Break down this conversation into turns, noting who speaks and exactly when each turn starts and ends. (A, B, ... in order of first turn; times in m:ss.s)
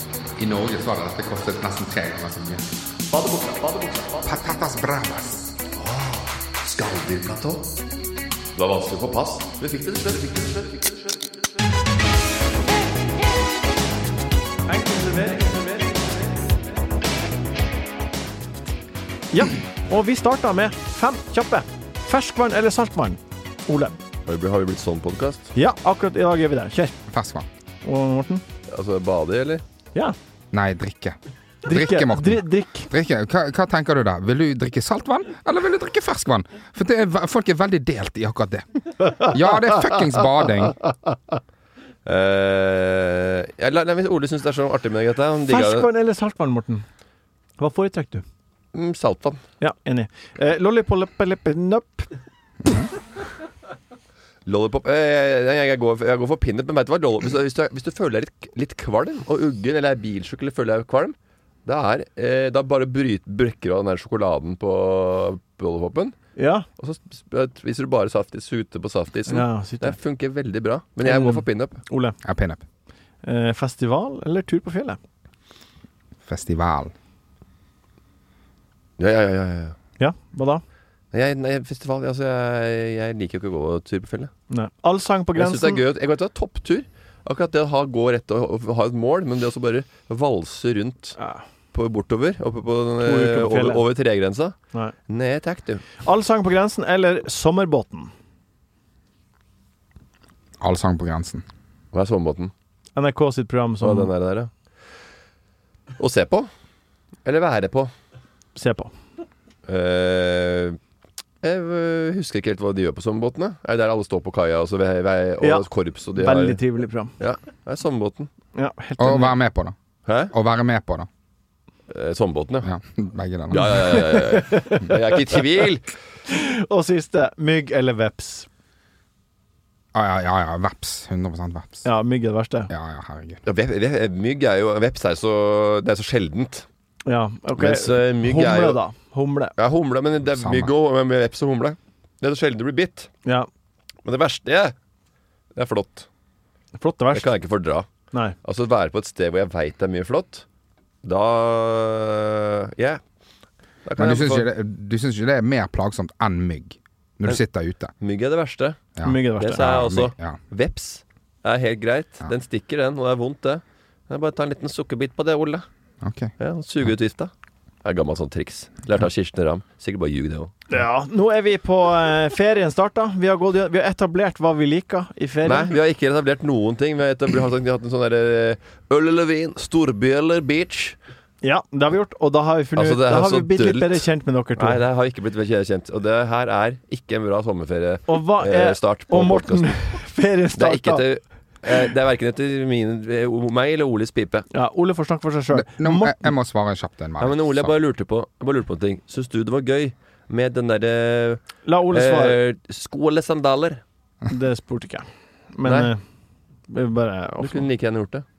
0:00.4-0:02.6 A
0:03.1-0:04.2 B
0:04.2-0:05.5 A
0:05.8-0:07.6 B
0:08.5-0:11.1 B
0:14.7-0:16.3 C
0:19.3-0:24.0 C
0:24.2-0:25.5 B
0:25.5-0:26.9 C
0:27.1-0:27.5 A
0:27.8-0:28.4 C
0:28.7-0:29.6 B
0:30.5-0:40.8 A
0:31.6-0:32.9 C
0:42.0-0:45.9 B
0:45.5-0:46.8 C
0:47.6-0:48.2 C
0:48.7-0:49.4 B
0:49.6-0:52.1 C
0:54.4-1:06.2 B
1:06.4-1:06.6 C
1:06.8-1:11.8 B
1:09.3-1:10.0 C
1:11.0-1:12.2 C
1:12.2-1:12.6 A
1:13.2-1:15.0 C
1:16.2-1:16.9 A
1:19.0-1:19.8 B
1:20.0-1:20.6 C
1:21.1-1:24.3 B
1:24.5-1:25.8 C
1:25.4-1:31.2 B
1:31.2-1:31.4 C
1:31.7-1:34.6 B
1:33.0-1:33.8 C
1:35.1-1:35.8 B
1:36.0-1:38.1 C
1:40.6-1:41.4 A
1:41.9-1:42.5 B
1:43.0-1:44.1 C
1:43.8-1:44.5 B
1:46.0-1:46.5 B
1:47.2-1:47.9 B
1:48.6-1:48.9 C
1:49.7-1:50.8 B
1:51.4-1:56.6 B
1:55.4-1:57.1 C
1:57.2-1:58.3 B
1:58.5-1:59.4 C
1:59.0-1:59.7 A
2:00.0-2:00.3 B
2:00.3-2:01.1 A
2:01.9-2:02.7 B
2:02.6-2:04.0 A
2:03.5-2:05.9 B
2:03.9-2:04.9 C
2:06.3-2:08.5 C
2:09.9-2:11.8 A
2:11.8-2:12.7 C
2:12.7-2:13.4 A
2:13.4-2:16.6 B
2:17.0-2:19.5 C
2:17.6-2:18.8 B
2:19.6-2:23.1 B
2:20.2-2:20.7 A
2:24.0-2:24.7 B
2:25.5-2:26.1 B
2:26.8-2:27.3 C
2:27.1-2:27.9 B
2:28.4-2:30.4 B
2:31.0-2:33.0 B
2:33.8-2:34.5 B
2:34.0-2:37.9 A
2:38.0-2:38.8 B
2:39.0-2:40.4 A
2:39.0-2:39.7 C
2:39.4-2:45.6 B
2:46.0-2:46.3 A
2:46.4-2:47.3 B
2:47.8-2:50.6 B
2:50.7-2:55.7 C
2:55.4-3:01.0 B
3:01.4-3:04.8 C
3:02.8-3:04.0 B
3:04.6-3:09.8 B
3:08.1-3:11.0 C
3:10.6-3:14.5 B
3:14.5-3:16.3 C
3:15.5-3:17.7 A
3:17.2-3:23.8 B
3:21.6-3:22.4 C
3:24.3-3:26.0 C
3:25.6-3:25.9 B
3:26.7-3:27.7 C
3:27.4-3:28.2 B